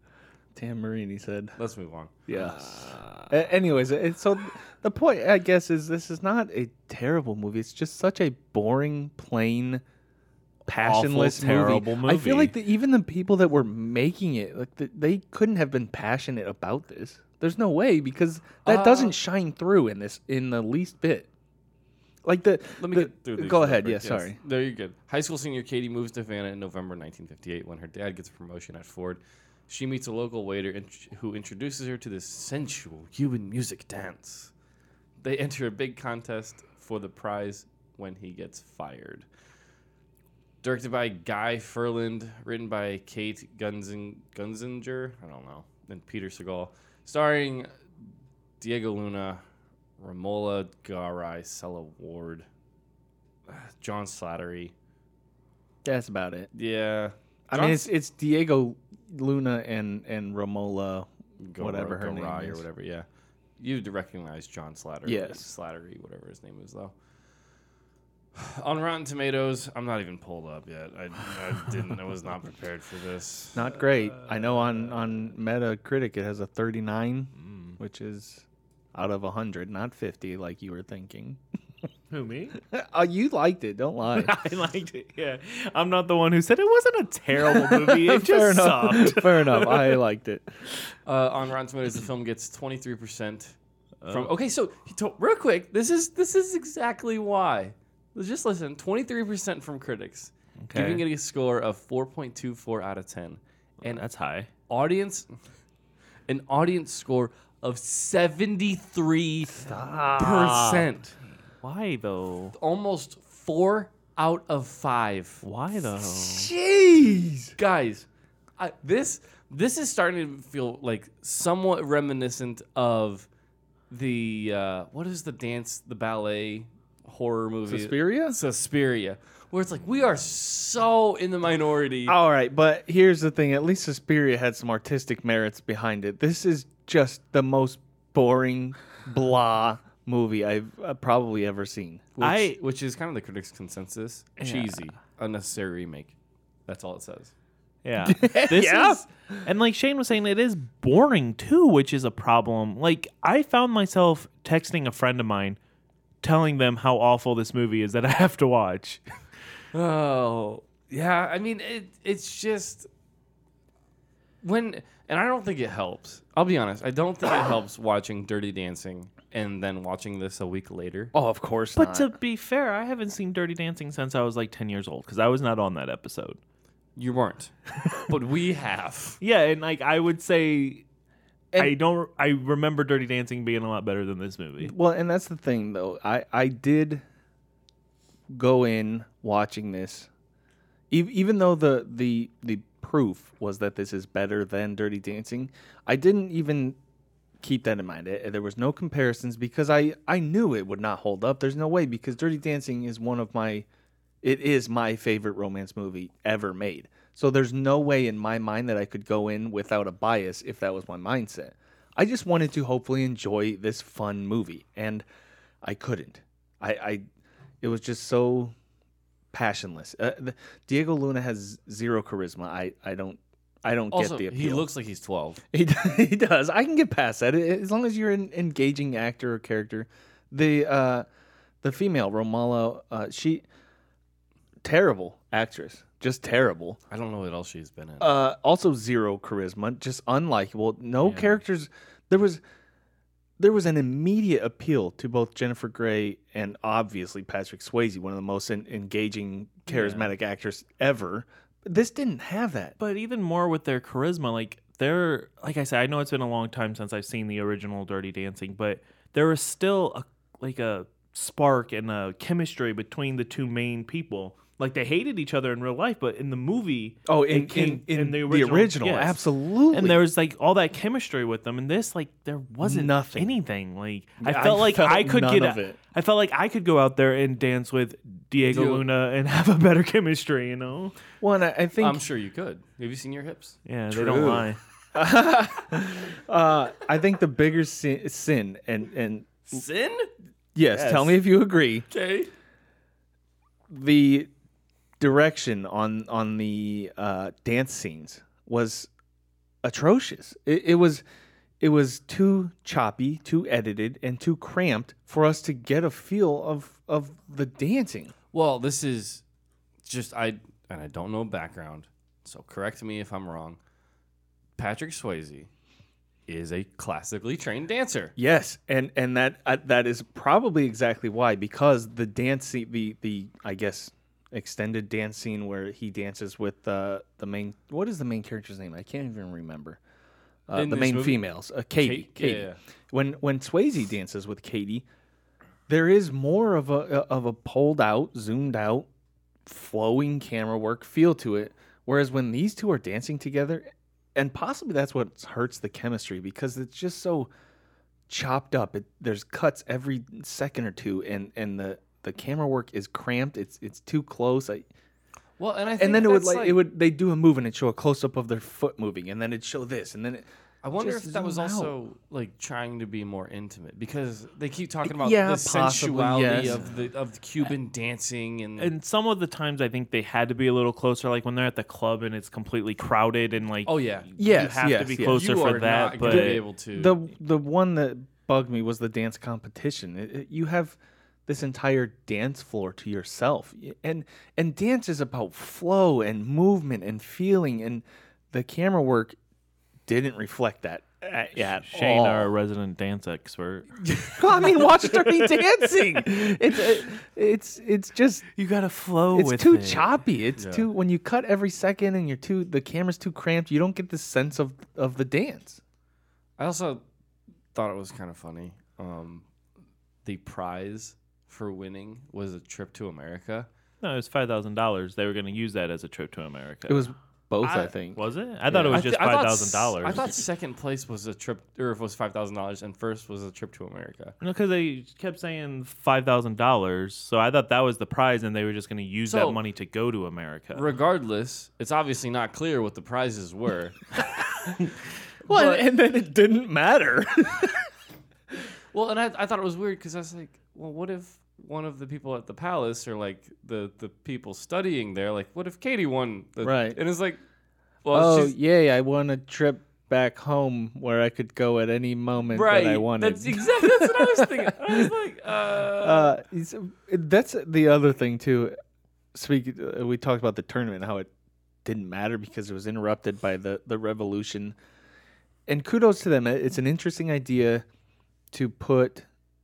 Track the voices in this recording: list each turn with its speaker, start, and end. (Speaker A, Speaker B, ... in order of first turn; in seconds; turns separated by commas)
Speaker A: 0.6-1.6, Speaker B: 1.6-2.1, Speaker A: 2.3-9.8, Speaker C: 2.3-3.3, Speaker A: 10.7-21.3, Speaker C: 10.7-12.6, Speaker B: 18.6-19.2, Speaker A: 22.2-24.4, Speaker B: 22.8-34.5, Speaker B: 35.2-39.3, Speaker B: 40.6-47.7, Speaker B: 48.6-49.4, Speaker B: 50.0-52.5, Speaker B: 53.5-54.7, Speaker A: 55.8-56.5, Speaker B: 56.5-57.9, Speaker A: 57.5-62.6, Speaker B: 61.4-63.1, Speaker B: 63.6-67.0, Speaker A: 65.0-65.5, Speaker B: 68.3-73.7, Speaker A: 73.5-81.4, Speaker C: 77.4-77.8, Speaker C: 82.1-82.6, Speaker A: 82.7-84.3, Speaker C: 84.1-90.0, Speaker A: 87.3-90.6, Speaker B: 91.1-93.6, Speaker C: 94.0-94.3, Speaker B: 94.1-104.0, Speaker C: 100.6-101.0, Speaker C: 103.8-104.5, Speaker B: 104.7-105.3, Speaker B: 106.3-109.5, Speaker A: 109.5-110.9, Speaker B: 110.2-111.2, Speaker C: 111.6-112.6, Speaker B: 112.5-115.4, Speaker C: 115.4-116.5, Speaker A: 116.0-117.5, Speaker B: 117.6-123.3, Speaker B: 123.9-132.2, Speaker A: 127.7-128.4, Speaker A: 132.1-142.1, Speaker B: 142.2-146.2, Speaker C: 142.2-142.6, Speaker B: 146.7-147.3, Speaker C: 147.8-155.6, Speaker A: 148.0-149.0, Speaker C: 156.2-159.0, Speaker B: 159.7-162.9, Speaker B: 164.4-171.1, Speaker A: 171.1-172.2, Speaker C: 171.8-176.4, Speaker B: 177.0-177.5, Speaker B: 178.1-179.2, Speaker C: 179.2-180.8, Speaker C: 181.6-184.7, Speaker A: 184.6-187.0, Speaker A: 188.3-190.1, Speaker A: 190.9-196.8, Speaker A: 197.4-203.7, Speaker A: 204.2-215.1, Speaker A: 215.6-217.1, Speaker A: 217.6-218.5, Speaker A: 219.3-224.7, Speaker B: 223.9-225.4, Speaker A: 225.5-231.1, Speaker A: 231.6-233.4, Speaker A: 234.6-236.8, Speaker B: 236.9-238.2, Speaker A: 238.0-242.4, Speaker C: 241.0-241.4, Speaker A: 243.4-252.8, Speaker C: 249.7-250.1, Speaker C: 252.8-281.0, Speaker A: 267.1-270.0, Speaker A: 272.6-273.4, Speaker A: 274.2-275.8, Speaker B: 278.5-278.8, Speaker A: 281.2-282.0, Speaker B: 281.8-283.6, Speaker C: 283.7-284.6, Speaker A: 283.9-289.5, Speaker B: 289.5-290.1, Speaker A: 290.6-291.9, Speaker C: 290.7-291.2, Speaker B: 291.9-292.3, Speaker A: 293.7-294.3, Speaker A: 295.0-298.9, Speaker A: 299.6-301.0, Speaker A: 301.6-308.1, Speaker B: 308.3-309.2, Speaker B: 309.8-313.6, Speaker B: 314.6-315.5, Speaker B: 316.3-318.1, Speaker A: 318.2-329.8, Speaker A: 330.5-334.9, Speaker B: 330.5-332.6, Speaker A: 335.7-338.9, Speaker A: 339.5-347.3, Speaker A: 348.1-354.7, Speaker B: 355.4-356.6, Speaker A: 355.8-361.7, Speaker B: 360.6-368.7, Speaker A: 364.9-366.6, Speaker C: 368.6-376.4, Speaker B: 373.6-374.1, Speaker A: 374.2-375.5, Speaker B: 375.0-377.0, Speaker A: 376.0-389.2, Speaker A: 389.9-392.3, Speaker C: 391.4-393.8, Speaker A: 394.1-398.3, Speaker C: 398.4-400.0, Speaker A: 399.1-405.6, Speaker B: 400.4-400.7, Speaker B: 406.4-406.8, Speaker B: 407.5-409.3, Speaker B: 410.1-413.5, Speaker C: 413.8-416.9, Speaker A: 416.7-418.9, Speaker B: 417.4-417.7, Speaker C: 417.9-420.2, Speaker B: 418.5-424.1, Speaker C: 424.2-430.7, Speaker B: 429.1-429.4, Speaker B: 430.5-433.8, Speaker B: 435.2-435.6, Speaker A: 435.3-437.7, Speaker B: 438.7-447.2, Speaker A: 446.4-446.8, Speaker B: 447.8-448.4, Speaker A: 447.9-454.8, Speaker B: 452.3-456.2, Speaker A: 455.8-458.6, Speaker A: 459.1-461.1, Speaker A: 461.6-464.6, Speaker A: 465.5-467.7, Speaker A: 468.3-469.1